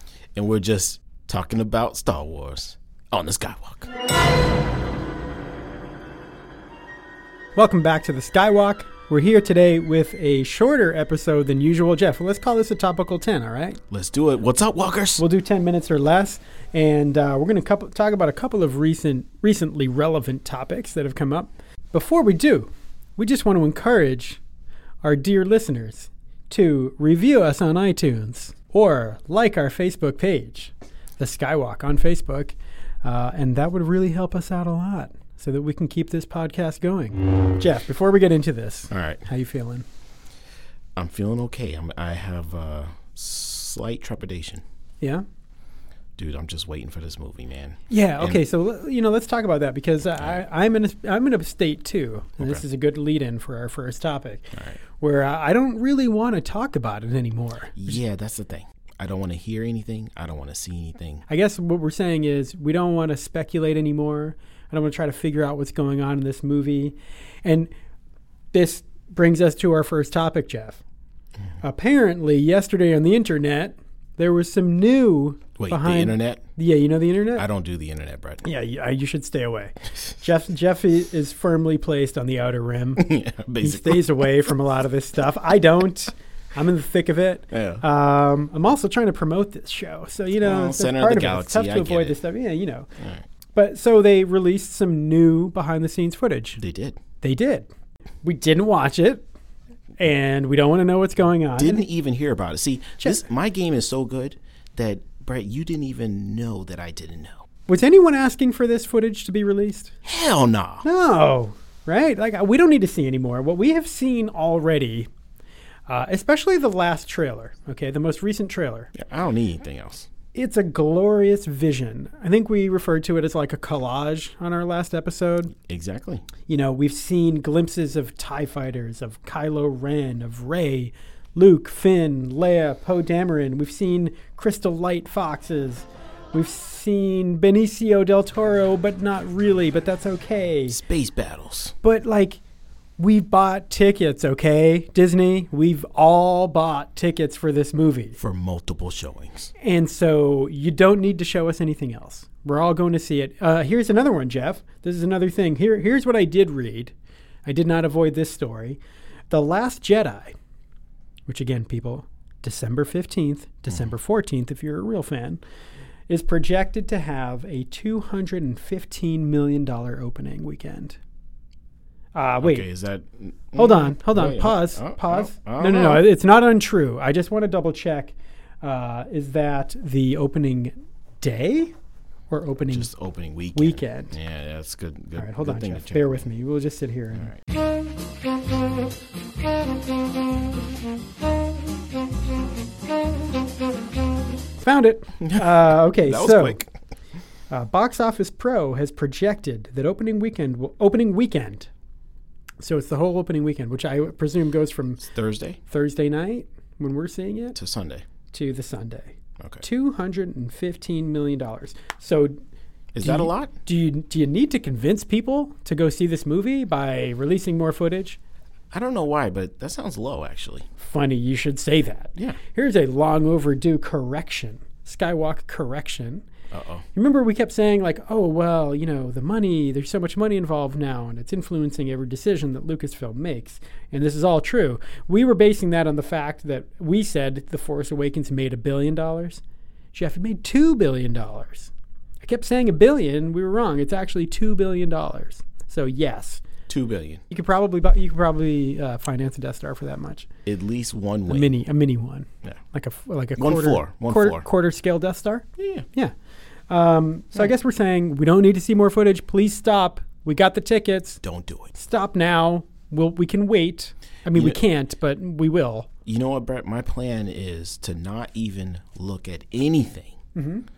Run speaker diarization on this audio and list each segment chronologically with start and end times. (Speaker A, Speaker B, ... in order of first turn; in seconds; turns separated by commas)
Speaker A: 0.3-3.9, Speaker B: 7.5-13.8, Speaker A: 13.9-15.2, Speaker B: 15.2-24.4, Speaker B: 25.0-39.8, Speaker A: 38.9-39.2, Speaker A: 41.0-44.6, Speaker A: 46.2-48.4, Speaker B: 47.9-58.0, Speaker A: 57.8-61.2, Speaker B: 61.3-67.7, Speaker B: 68.5-70.8, Speaker B: 71.6-77.4, Speaker A: 75.6-76.5, Speaker A: 77.3-78.5, Speaker B: 78.4-83.1, Speaker A: 83.0-84.3, Speaker B: 83.6-92.9, Speaker A: 87.5-87.8, Speaker A: 90.4-92.2, Speaker A: 93.0-93.2, Speaker B: 93.5-96.6, Speaker A: 96.6-97.0, Speaker B: 97.2-97.7, Speaker B: 98.2-99.2, Speaker B: 100.0-101.8, Speaker A: 101.6-107.4, Speaker B: 107.7-109.9, Speaker A: 110.0-110.8, Speaker B: 110.8-115.1, Speaker B: 115.9-118.9, Speaker A: 118.9-120.1, Speaker B: 120.3-125.5, Speaker A: 125.7-126.3, Speaker B: 126.5-140.8, Speaker A: 140.7-141.7, Speaker B: 141.8-142.4, Speaker B: 143.0-148.2, Speaker A: 148.2-149.5, Speaker B: 149.6-156.9, Speaker B: 157.4-160.3, Speaker B: 161.3-165.4, Speaker B: 166.1-171.0, Speaker B: 172.1-172.7, Speaker A: 172.4-176.1, Speaker B: 173.5-181.7, Speaker B: 182.3-182.9, Speaker A: 182.7-186.2, Speaker B: 183.5-184.1, Speaker B: 185.2-187.3, Speaker B: 194.6-196.6, Speaker A: 195.2-196.7, Speaker B: 197.5-201.7, Speaker B: 202.6-205.1, Speaker A: 205.0-205.6, Speaker B: 205.7-207.6, Speaker A: 207.6-208.0, Speaker B: 208.3-212.3, Speaker A: 212.9-213.6, Speaker B: 213.0-218.2, Speaker A: 218.7-220.7, Speaker B: 220.8-226.2, Speaker A: 226.5-226.8, Speaker B: 226.9-239.4, Speaker B: 239.9-241.7, Speaker B: 242.2-246.4, Speaker A: 246.7-247.2, Speaker B: 247.3-250.3, Speaker A: 250.4-251.6, Speaker B: 251.3-256.1, Speaker A: 253.4-254.4, Speaker A: 255.6-255.8, Speaker B: 256.7-261.2, Speaker A: 261.2-261.7, Speaker B: 261.7-265.9, Speaker A: 266.1-270.2, Speaker B: 270.3-270.6